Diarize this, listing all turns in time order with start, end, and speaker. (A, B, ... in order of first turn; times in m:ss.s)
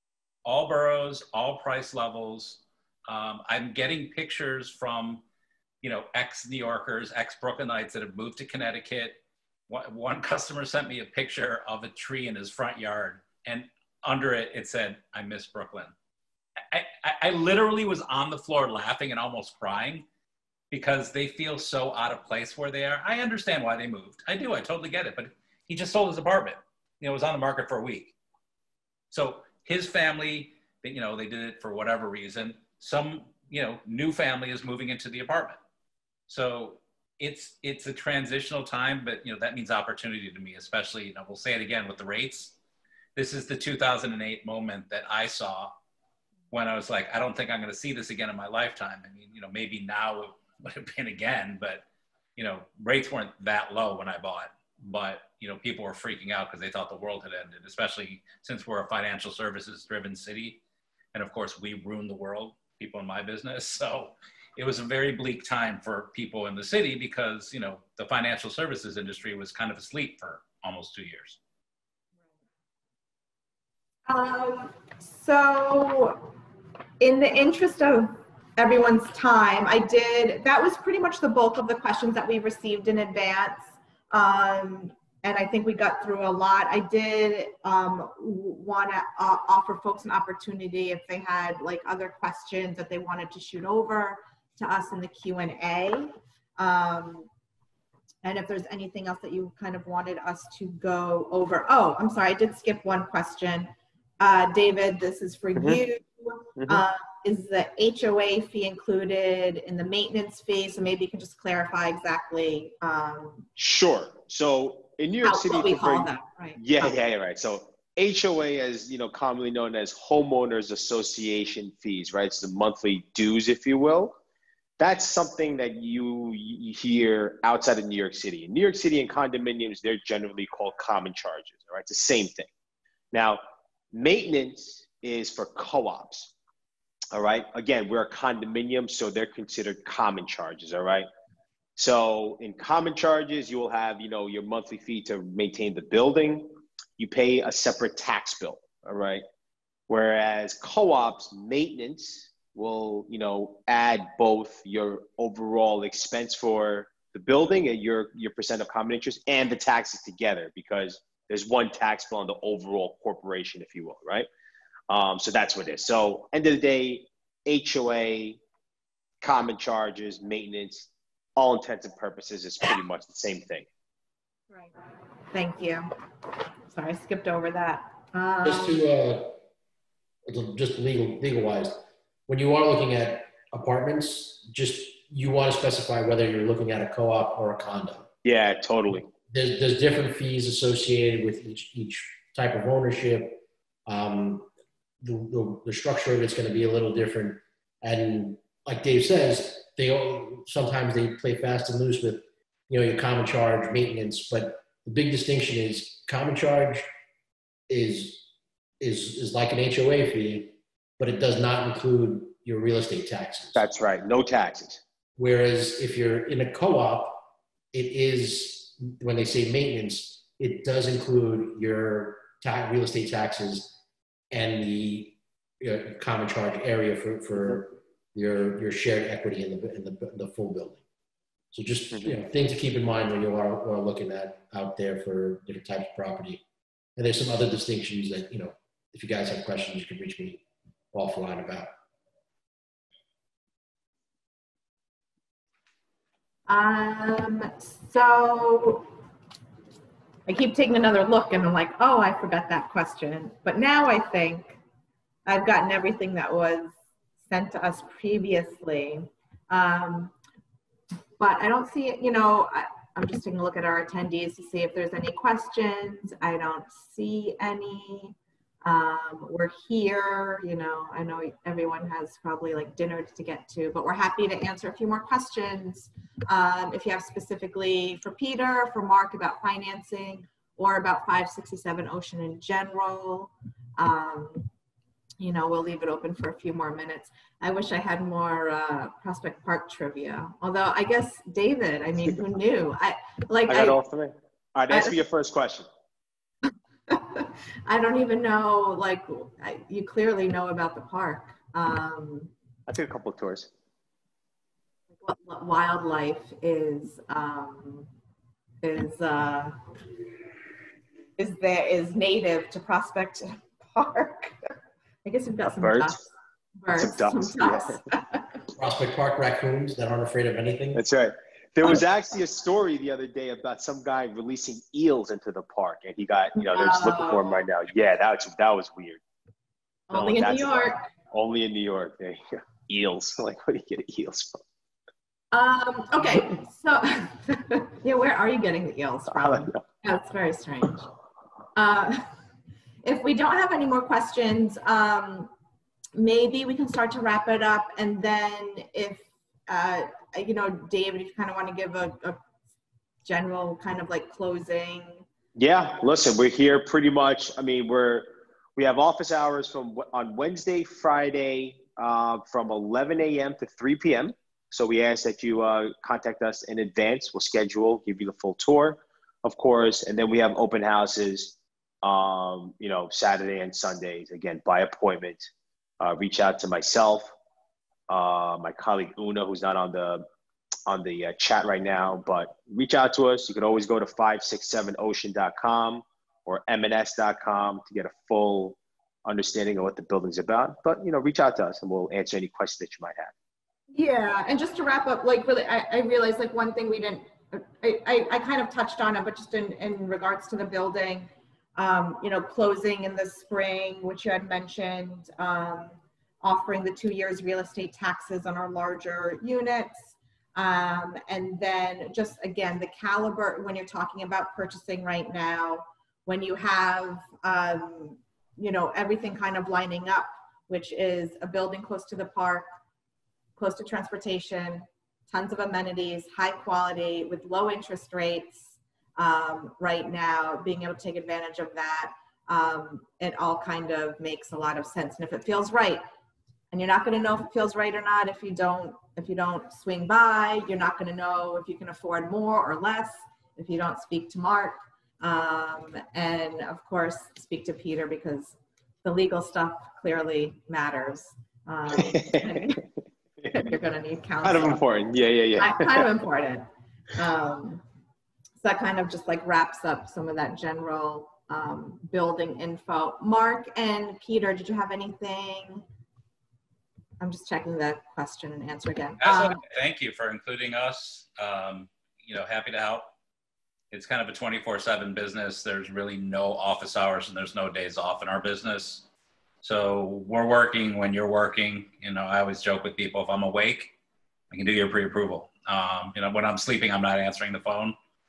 0:00.4-0:05.2 A
0:05.8-0:15.9 A
0:16.7-0:20.0 A
0:20.7-0:28.1 A
0:29.1-0:35.6 A
0:36.3-0:42.6 A
0:43.2-0:45.7 A
0:46.5-0:51.8 A
0:52.4-1:00.6 A
1:01.1-1:11.4 A
1:14.1-1:16.3 B
1:17.0-1:37.3 B
1:38.2-1:53.5 B
1:45.6-1:45.8 C
1:46.6-1:46.8 C
1:53.6-2:04.2 C
1:55.2-1:57.0 B
2:04.8-2:12.5 C
2:13.1-2:13.4 C
2:13.9-2:16.3 C
2:17.1-2:21.1 C
2:21.8-2:29.2 C
2:29.9-2:44.3 C
2:44.9-2:48.4 C
2:49.2-2:53.7 C
2:55.3-2:55.9 B
2:56.7-2:58.8 B
2:58.4-2:59.4 D
3:00.3-3:08.1 D
3:08.2-3:09.1 C
3:08.9-3:14.5 D
3:15.0-3:26.8 D
3:27.7-3:28.2 D
3:28.8-3:33.6 D
3:33.6-3:34.8 C
3:35.2-3:43.8 D
3:44.3-3:50.8 D
3:51.5-3:56.4 D
3:57.0-4:01.7 D
4:06.5-4:08.9 B
4:10.3-4:14.6 B
4:15.3-4:20.1 B
4:21.2-4:44.5 B
4:45.2-4:53.8 B
4:53.5-4:55.7 C
4:54.7-4:55.0 B
4:56.9-5:02.3 B
5:02.7-5:03.5 C
5:05.0-5:07.9 B
5:08.6-5:09.6 B
5:11.2-5:14.4 B
5:15.0-5:16.0 B
5:15.6-5:16.0 C
5:16.6-5:18.4 B
5:16.8-5:17.8 C
5:18.6-5:20.8 D
5:20.7-5:29.0 C
5:26.4-5:27.4 B
5:29.9-5:30.9 B
5:29.9-5:34.4 C
5:35.3-5:40.9 B
5:39.1-5:39.6 C
5:41.6-5:42.1 B
5:42.8-5:45.3 B
5:46.0-5:52.2 B
5:53.0-5:55.0 B
5:55.4-6:17.1 C
6:17.9-6:20.0 C
6:20.7-6:33.1 C
6:33.7-7:02.5 B
7:03.4-7:15.8 B
7:16.5-7:32.6 B
7:31.8-7:32.5 C
7:33.3-7:34.6 B
7:34.2-7:35.8 C
7:35.4-7:37.6 B
7:38.4-7:45.6 B
7:47.0-7:49.4 B
7:49.0-7:52.9 A
7:53.7-7:58.9 A
7:59.4-8:03.7 A
8:04.3-8:07.8 A